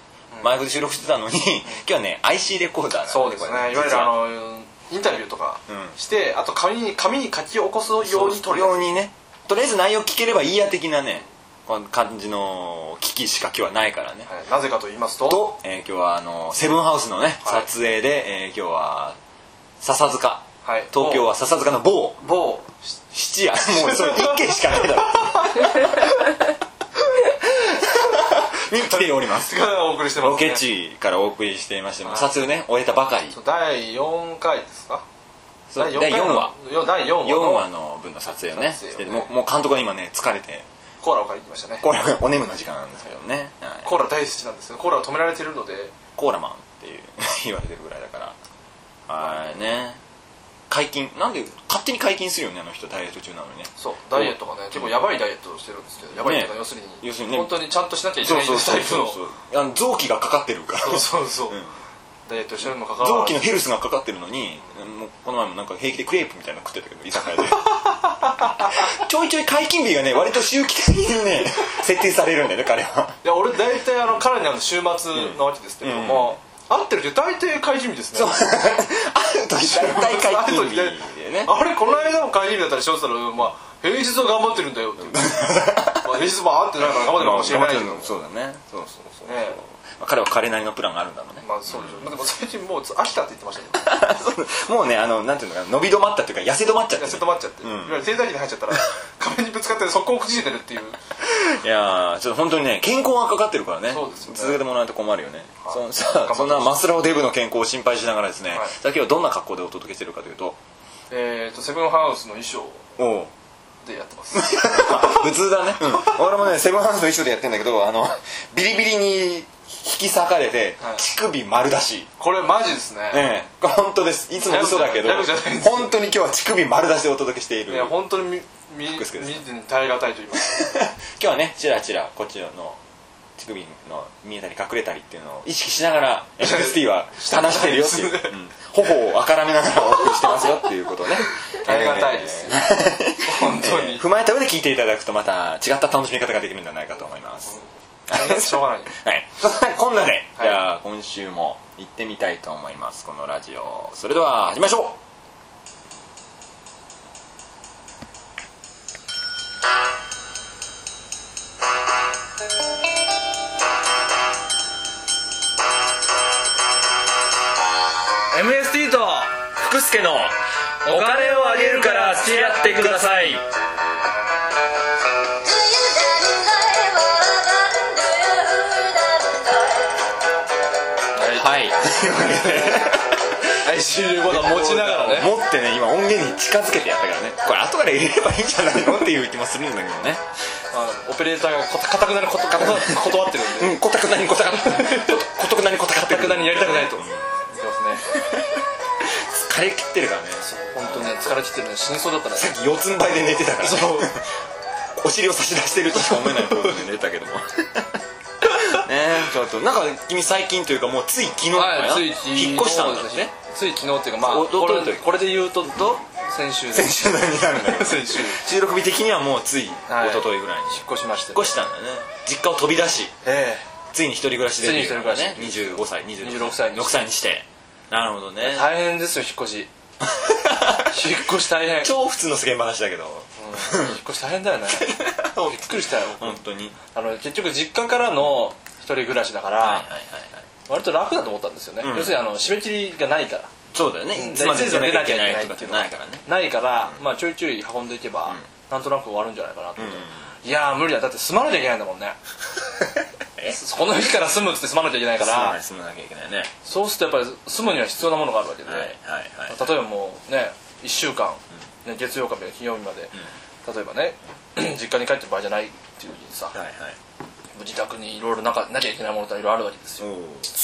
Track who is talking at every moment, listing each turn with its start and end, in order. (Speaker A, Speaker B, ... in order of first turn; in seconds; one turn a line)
Speaker A: 0.4-4.2
Speaker B: 3.1-8.9
Speaker A: 5.7-6.0
Speaker A: 8.0-14.3
Speaker B: 14.3-15.5
Speaker A: 15.3-19.2
Speaker B: 17.4-17.7
Speaker A: 19.8-22.2
Speaker B: 20.6-21.3
Speaker B: 22.2-22.9
Speaker A: 23.1-26.0
Speaker B: 23.6-24.5
Speaker B: 25.3-26.1
Speaker A: 27.6-33.4
Speaker B: 28.8-30.6
Speaker B: 32.0-32.3
Speaker B: 33.3-35.0
Speaker A: 35.7-40.7
Speaker B: 35.8-37.7
Speaker B: 38.4-39.3
Speaker B: 41.0-41.9
Speaker A: 41.8-44.0
Speaker B: 43.8-45.9
Speaker A: 46.2-48.4
Speaker A: 49.1-50.0
Speaker B: 49.2-49.6
Speaker A: 50.7-55.0
Speaker B: 53.8-59.2
Speaker A: 56.1-57.7
Speaker A: 58.2-61.7
Speaker B: 60.8-61.6
Speaker B: 62.3-63.5
Speaker A: 62.6-67.8
Speaker B: 67.7-68.4
Speaker A: 68.4-73.2
Speaker B: 73.2-78.4
Speaker A: 75.1-76.4
Speaker A: 78.1-81.6
Speaker B: 79.6-88.1
Speaker A: 85.1-86.1
Speaker A: 86.9-92.1
Speaker B: 89.3-89.6
Speaker B: 91.4-94.0
Speaker A: 93.8-98.1
Speaker B: 97.0-101.0
Speaker A: 101.2-110.6
Speaker B: 103.9-104.6
Speaker B: 105.6-106.8
Speaker B: 111.1-112.9
Speaker A: 113.0-113.3
Speaker B: 113.8-115.3
Speaker A: 114.3-122.1
Speaker B: 122.2-123.3
Speaker A: 123.1-128.0
Speaker B: 124.4-126.0
Speaker B: 127.7-130.9
Speaker A: 128.9-129.4
Speaker A: 130.4-132.8
Speaker A: 133.4-147.6
Speaker B: 136.4-138.3
Speaker B: 141.6-142.7
Speaker B: 143.2-144.1
Speaker B: 148.1-148.9
Speaker A: 148.1-155.0
Speaker B: 168.3-169.4
Speaker A: 169.6-173.4
Speaker B: 170.8-173.4
Speaker C: 175.4-179.9
Speaker B: 181.2-185.3
Speaker A: 181.3-183.4
Speaker A: 184.2-190.2
Speaker B: 190.7-193.8
Speaker A: 192.6-197.3
Speaker B: 194.4-195.3
Speaker B: 195.9-198.1
Speaker A: 198.1-201.3
Speaker B: 200.4-202.5
Speaker A: 202.3-204.3
Speaker B: 203.6-204.1
Speaker A: 205.0-213.3
Speaker B: 206.0-206.8
Speaker B: 211.5-218.4
Speaker A: 214.2-215.3
Speaker A: 216.7-223.1
Speaker B: 219.9-221.5
Speaker B: 223.2-223.7
Speaker A: 223.9-228.7
Speaker B: 224.6-227.1
Speaker B: 228.4-229.7
Speaker A: 230.0-231.2
Speaker B: 230.9-231.9
Speaker A: 231.8-234.0
Speaker B: 233.4-234.9
Speaker A: 234.7-236.8
Speaker B: 235.5-236.4
Speaker B: 236.9-239.9
Speaker A: 239.6-240.4
Speaker B: 240.7-243.5
Speaker A: 241.8-242.2
Speaker A: 243.7-246.2
Speaker B: 244.1-252.2
Speaker A: 249.8-250.3
Speaker B: 253.5-255.6
Speaker A: 255.2-256.5
Speaker B: 256.6-258.9
Speaker A: 258.7-259.6
Speaker B: 259.5-266.6
Speaker A: 266.5-267.0
Speaker B: 267.6-270.1
Speaker A: 270.0-270.5